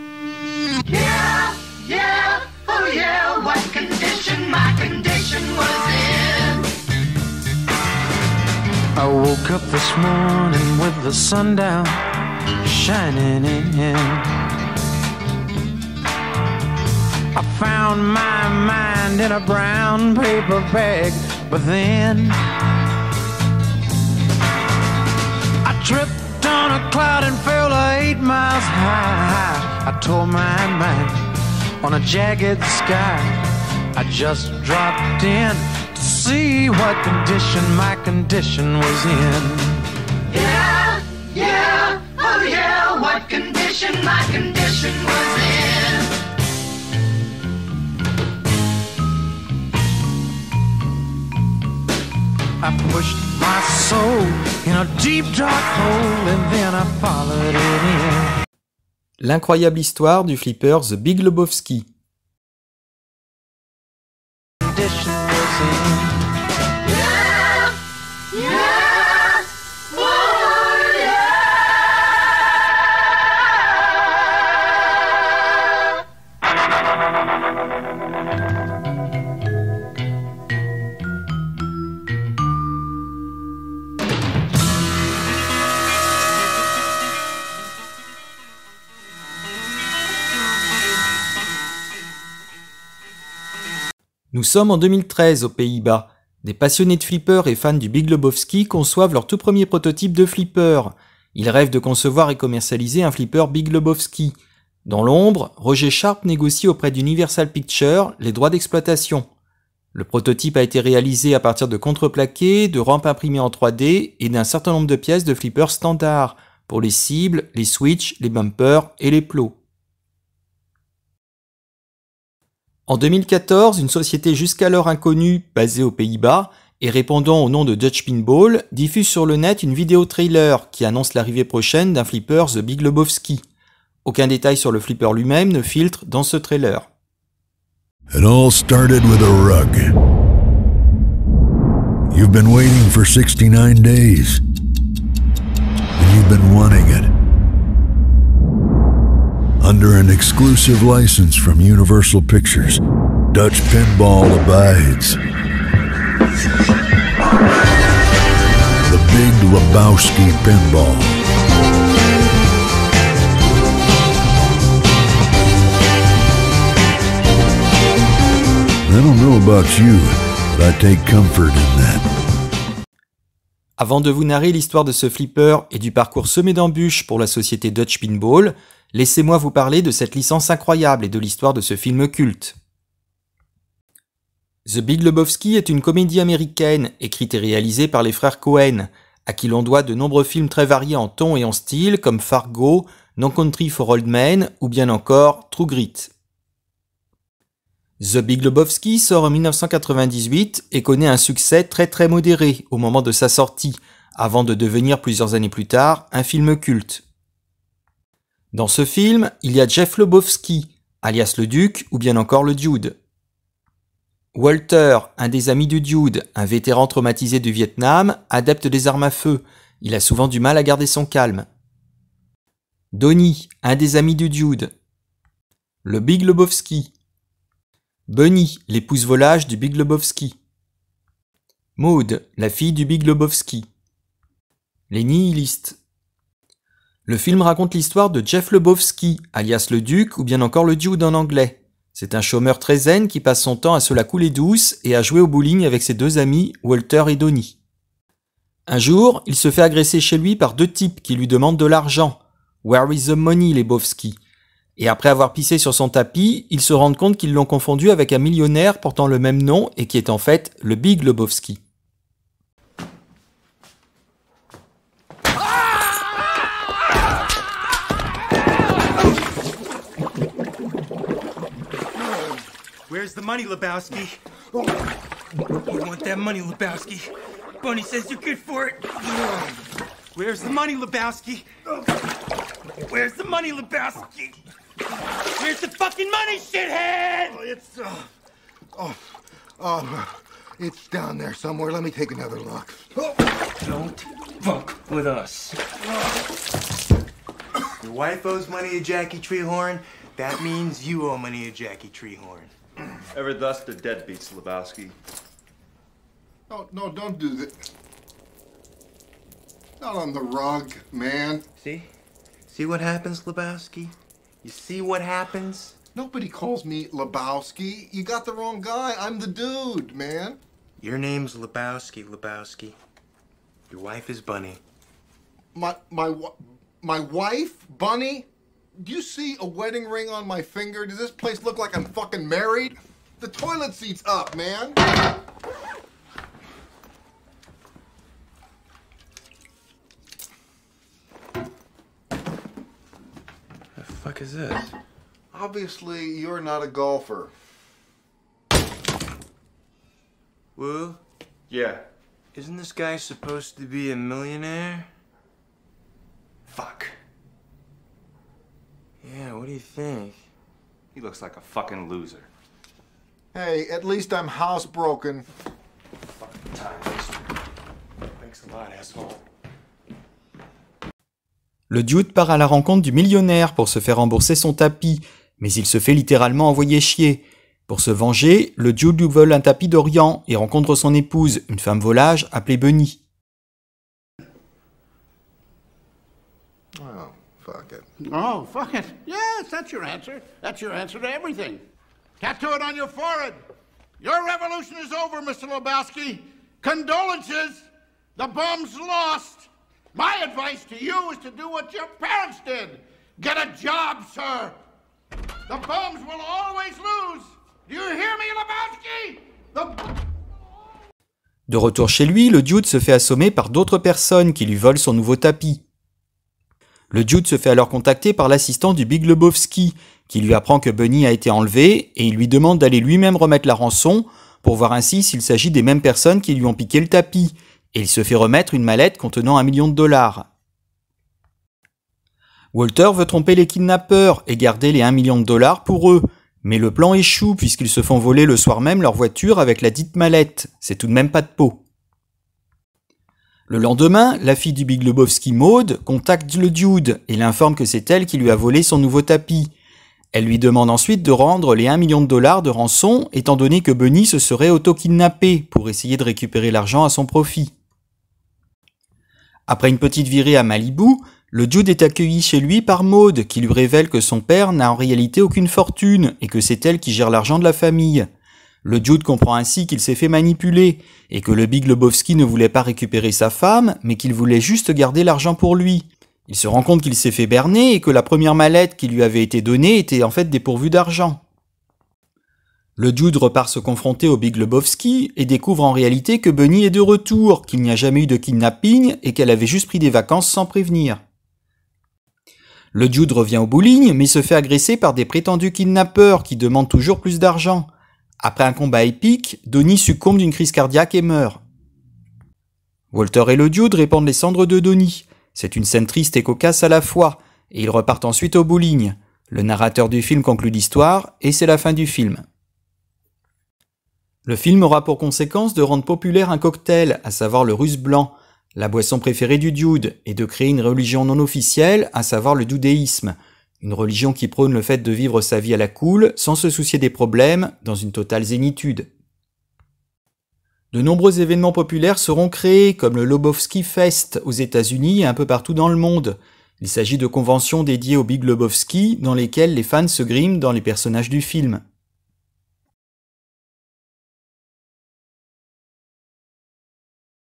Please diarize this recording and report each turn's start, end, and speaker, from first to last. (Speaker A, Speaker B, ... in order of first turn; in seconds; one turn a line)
Speaker A: 0.9-6.7
Speaker B: 8.9-12.0
Speaker B: 12.6-14.3
Speaker B: 17.3-22.4
Speaker B: 25.6-31.3
Speaker B: 31.8-39.9
Speaker A: 40.3-46.1
Speaker B: 52.6-58.4
Speaker C: 59.2-61.9
Speaker B: 64.7-66.3
Speaker A: 67.0-67.6
Speaker A: 68.3-71.2
Speaker C: 94.3-109.3
Speaker C: 109.9-119.6
Speaker C: 122.9-133.4
Speaker C: 134.1-136.9
Speaker D: 138.1-139.9
Speaker D: 142.1-144.4
Speaker D: 146.0-147.1
Speaker D: 149.6-152.8
Speaker D: 153.3-155.2
Speaker D: 158.9-161.2
Speaker D: 168.9-172.1
Speaker C: 173.8-182.6
Speaker C: 184.7-196.1
Speaker C: 198.0-207.0
Speaker C: 208.5-213.0
Speaker C: 214.3-221.5
Speaker C: 222.9-224.7
Speaker C: 225.8-226.9
Speaker C: 228.1-230.4
Speaker C: 231.8-233.7
Speaker C: 234.9-235.8
Speaker C: 237.1-247.6
Speaker C: 248.7-254.2
Speaker C: 254.8-261.6
Speaker E: 272.9-274.1
Speaker E: 275.8-277.1
Speaker E: 280.2-281.4
Speaker E: 283.0-284.0
Speaker E: 285.6-286.3
Speaker F: 287.3-288.1
Speaker F: 288.7-292.9
Speaker G: 293.6-295.4
Speaker G: 297.8-302.5
Speaker H: 303.1-304.9
Speaker F: 306.5-307.6
Speaker F: 309.8-311.4
Speaker G: 311.6-311.9
Speaker G: 312.5-315.8
Speaker F: 315.9-320.4
Speaker G: 320.8-322.8
Speaker G: 323.7-324.6
Speaker F: 325.5-334.8
Speaker G: 343.8-344.7
Speaker F: 345.3-347.3
Speaker G: 350.6-351.0
Speaker H: 351.5-351.8
Speaker G: 352.3-354.9
Speaker H: 356.5-356.9
Speaker G: 359.0-360.2
Speaker H: 360.9-362.3
Speaker F: 363.3-365.2
Speaker H: 366.2-367.2
Speaker H: 368.2-369.2
Speaker C: 371.7-383.0
Speaker F: 386.8-387.9
Speaker I: 388.0-391.6
Speaker I: 392.2-393.4
Speaker I: 394.0-404.6
Speaker I: 405.5-409.9
Speaker C: 411.5-415.6
Speaker C: 416.9-430.3
Speaker C: 432.5-441.6
Speaker C: 443.5-449.5
Speaker C: 450.1-457.5
Speaker C: 459.5-468.1
Speaker C: 468.6-481.2
Speaker C: 482.8-491.0
Speaker C: 492.7-497.7
Speaker C: 498.2-501.4
Speaker C: 502.9-512.2
Speaker C: 514.2-528.9
Speaker C: 530.7-541.6